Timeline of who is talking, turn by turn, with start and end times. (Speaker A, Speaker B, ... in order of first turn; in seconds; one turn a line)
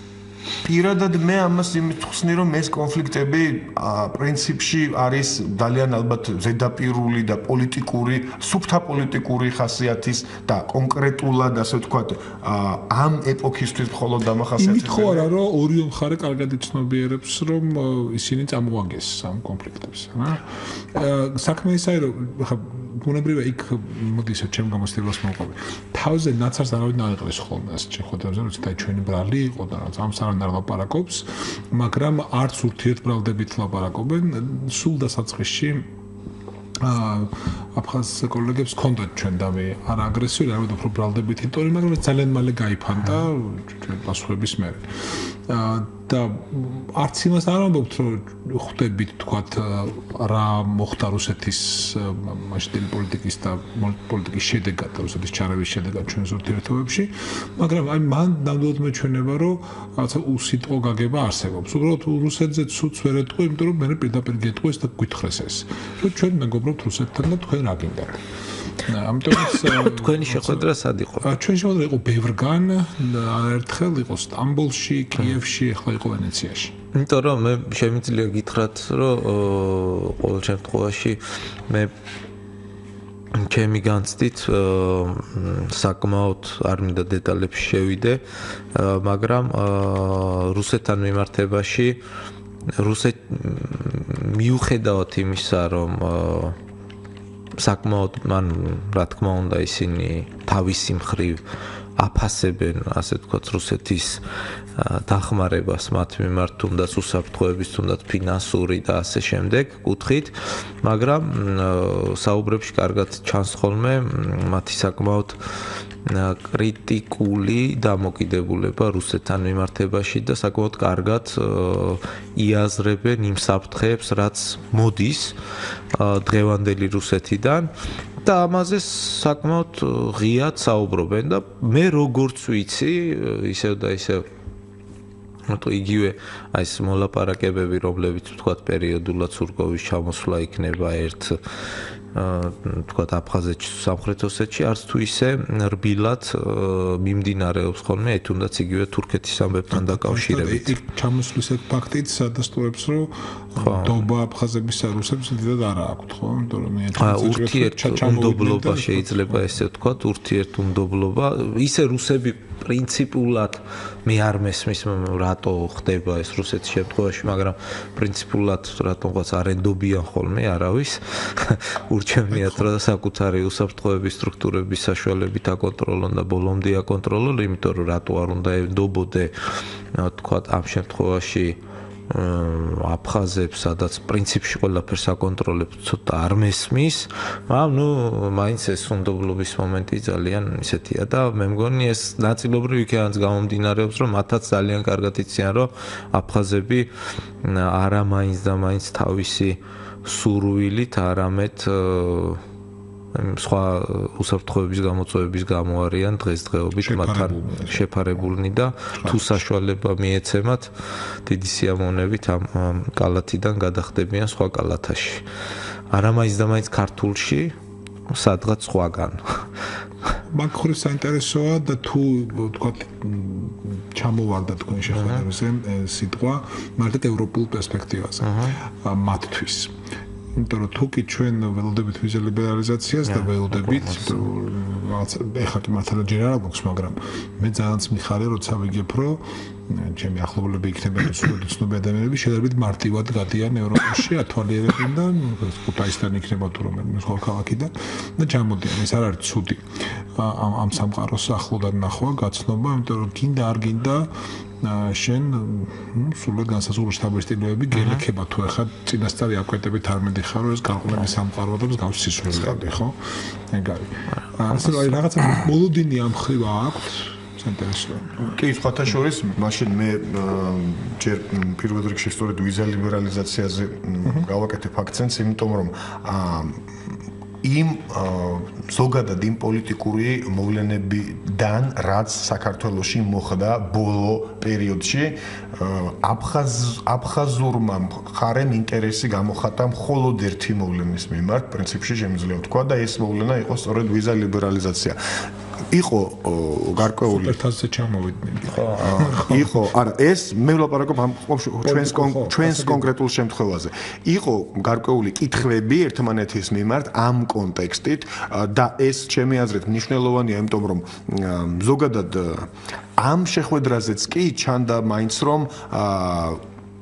Speaker A: 0.6-15.3
Speaker B: 14.6-35.9
Speaker B: 36.8-68.2
Speaker B: 68.8-70.7
Speaker C: 69.5-71.3
Speaker B: 71.2-76.7
Speaker C: 76.9-81.9
Speaker C: 83.3-88.2
Speaker C: 88.7-92.0
Speaker C: 92.8-96.6
Speaker C: 97.6-101.4
Speaker C: 102.0-104.2
Speaker C: 104.8-115.4
Speaker C: 116.0-125.4
Speaker C: 125.9-127.7
Speaker C: 128.2-134.3
Speaker C: 135.5-141.4
Speaker C: 142.1-150.7
Speaker B: 149.7-159.6
Speaker C: 153.6-154.0
Speaker C: 157.0-179.3
Speaker B: 172.3-172.7
Speaker C: 179.9-196.9
Speaker C: 197.4-202.4
Speaker C: 203.1-210.7
Speaker B: 206.8-207.8
Speaker B: 209.0-209.4
Speaker C: 211.2-215.2
Speaker C: 215.9-217.6
Speaker C: 218.1-219.5
Speaker B: 220.3-229.7
Speaker C: 224.9-225.2
Speaker C: 228.2-228.6
Speaker B: 230.3-268.3
Speaker C: 233.1-234.3
Speaker C: 257.7-258.0
Speaker A: 268.2-276.6
Speaker A: 277.4-295.0
Speaker A: 295.7-297.4
Speaker B: 297.1-299.6
Speaker C: 298.5-299.0
Speaker A: 298.8-316.4
Speaker B: 301.6-302.9